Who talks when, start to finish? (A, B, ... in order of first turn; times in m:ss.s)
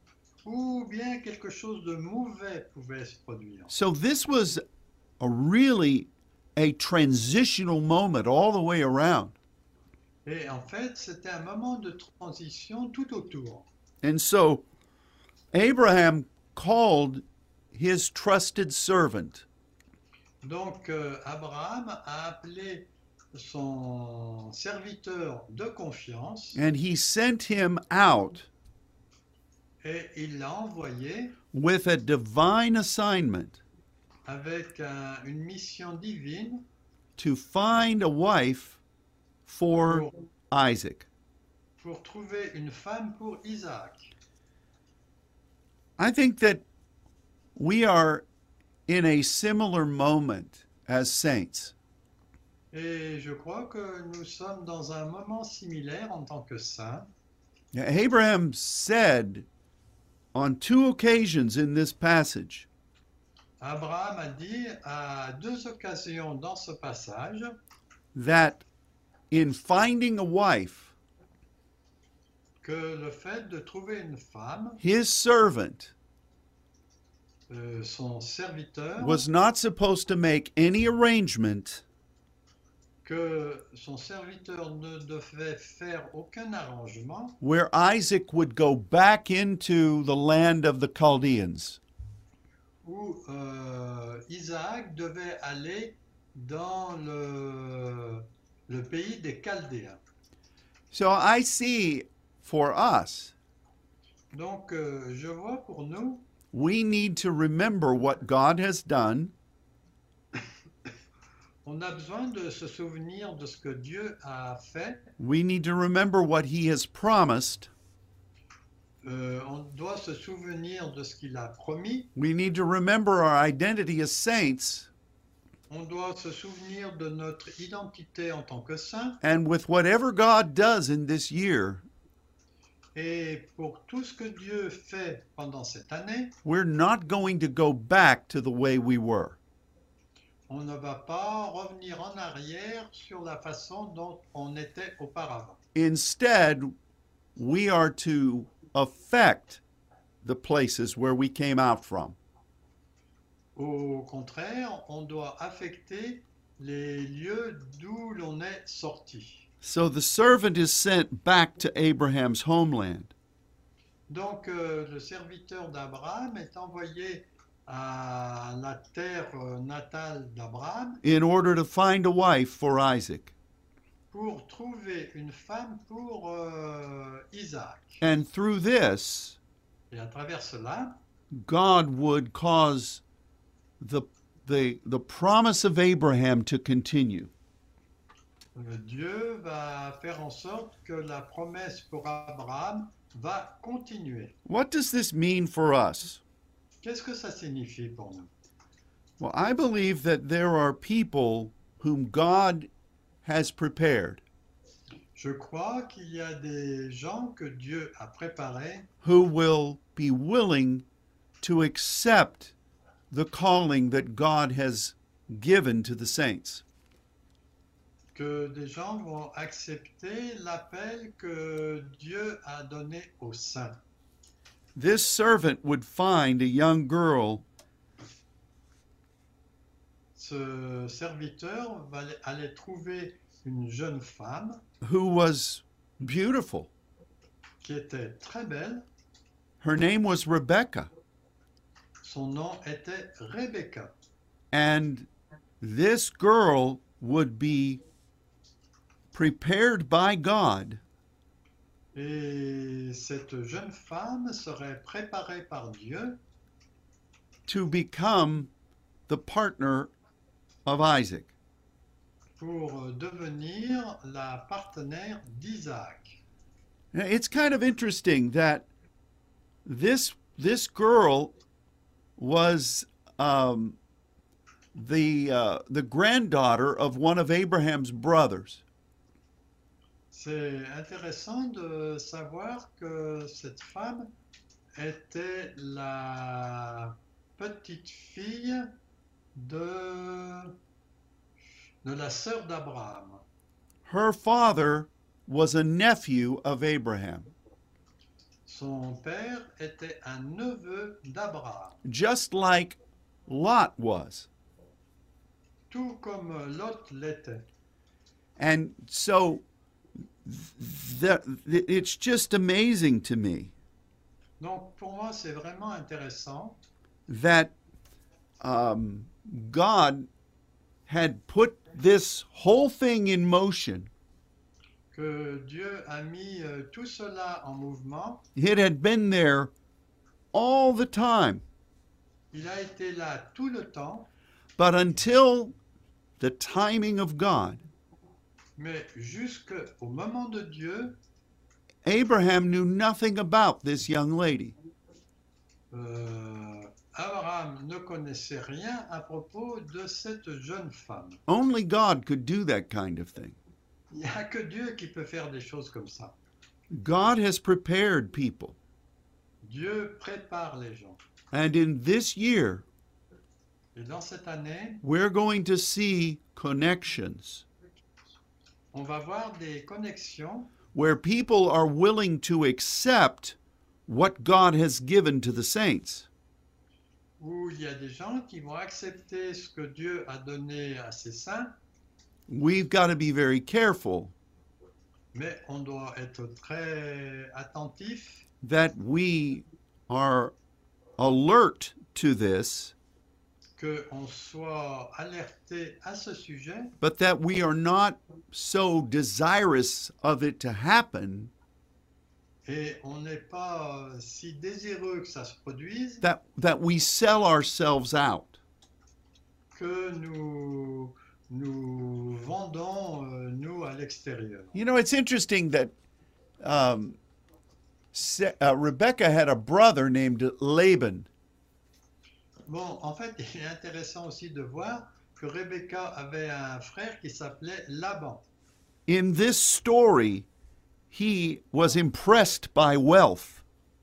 0:00.4-0:03.7 A
0:03.7-0:04.6 B
0:05.2-0:09.4 B
0:10.2-0:13.7 A
0:14.0-0:14.6 B
0:15.5-0:19.4 B
0:20.4-0:26.6 A
0:26.5-0:28.5 B
0:29.8-0:31.4 A
0:31.5-0:33.6 B
0:34.2-0:36.6 A
0:37.2-0:38.8 B
0:39.4-0:41.1 B
0:39.8-0:40.1 A
0:41.8-0:44.1 A
0:46.0-0:46.6 B
0:47.6-0:48.2 B
0:48.9-0:51.7 B
0:52.7-0:57.1 A
0:57.7-0:59.5 B
1:00.3-1:02.7 B
1:03.6-1:07.6 A
1:08.1-1:08.6 B
1:09.3-1:10.9 B
1:12.6-1:14.8 A
1:14.8-1:15.9 B
1:17.5-1:19.2 A
1:19.0-1:21.8 B
1:23.0-1:27.4 A
1:27.4-1:31.8 B
1:32.8-1:40.0 A
1:40.9-1:43.3 B
1:44.3-1:46.3 A
1:46.5-1:49.3 B
1:51.6-1:55.1 A
1:55.2-1:57.7 B
1:59.0-2:02.1 A
2:02.2-2:04.9 B
2:05.7-2:09.2 A
2:09.2-2:11.8 B
2:12.9-2:16.3 A
2:16.4-2:19.4 B
2:20.5-2:25.6 A
2:25.7-2:26.7 B
2:27.4-2:29.6 B
2:30.2-2:32.2 B
2:33.5-2:39.4 A
2:39.6-2:43.1 B
2:44.1-2:51.0 A
2:51.0-2:53.3 B
2:54.1-2:58.0 A
2:58.0-2:59.4 B
2:59.9-3:01.0 A
3:01.3-3:03.0 B
3:03.8-3:07.3 B
3:08.5-3:14.4 A
3:14.4-3:16.2 B
3:16.8-3:18.3 A
3:19.2-3:22.7 B
3:23.2-3:24.2 B
3:25.1-3:28.9 A
3:29.0-3:30.8 B
3:31.4-3:32.5 B
3:33.1-3:36.6 B
3:38.1-3:43.8 A
3:44.8-3:47.4 B
3:50.1-3:54.6 A
3:54.8-3:56.7 B
3:57.6-3:58.8 A
3:59.6-4:00.9 B
4:02.0-4:03.9 A
4:04.5-4:05.1 B
4:05.6-4:07.8 B
4:09.1-4:10.8 B
4:11.9-4:16.2 A
4:17.5-4:18.5 B
4:19.1-4:19.9 B
4:20.6-4:21.3 B
4:22.4-4:26.2 A
4:26.9-4:28.7 B
4:29.6-4:31.3 B
4:32.2-4:33.8 B
4:34.7-4:38.6 B
4:40.1-4:44.1 A
4:44.7-4:48.8 A
4:49.3-4:50.6 A
4:51.8-4:53.2 A
4:53.9-4:57.3 B
4:58.4-5:01.8 A
5:01.8-5:04.3 B
5:05.7-5:07.4 A
5:08.4-5:09.4 B
5:10.2-5:13.5 B
5:14.4-5:16.6 A
5:17.1-5:17.5 B
5:18.4-5:20.1 B
5:20.8-5:23.9 B
5:24.9-5:28.2 A
5:28.4-5:29.5 B
5:30.3-5:31.4 B
5:32.3-5:34.1 A
5:34.6-5:35.6 B
5:36.2-5:37.6 B
5:38.6-5:41.0 A
5:41.8-5:44.5 B
5:45.7-5:51.2 A
5:51.3-5:53.4 B
5:53.9-5:56.2 A
5:56.7-5:58.6 B
5:59.4-6:01.0 A
6:01.3-6:02.6 B
6:03.7-6:04.8 A
6:04.8-6:07.4 B
6:08.7-6:10.5 A
6:10.7-6:16.1 B
6:17.2-6:21.5 A
6:22.3-6:24.1 B
6:25.1-6:28.2 A
6:28.4-6:30.3 B
6:31.0-6:32.7 B
6:33.6-6:36.7 A
6:36.8-6:41.3 B
6:42.4-6:46.0 A
6:46.0-6:48.4 B
6:49.5-6:54.5 A
6:54.5-6:55.7 B
6:56.4-6:57.0 B
6:57.9-7:01.1 B
7:02.5-7:08.2 A
7:08.9-7:10.3 B
7:10.9-7:13.4 B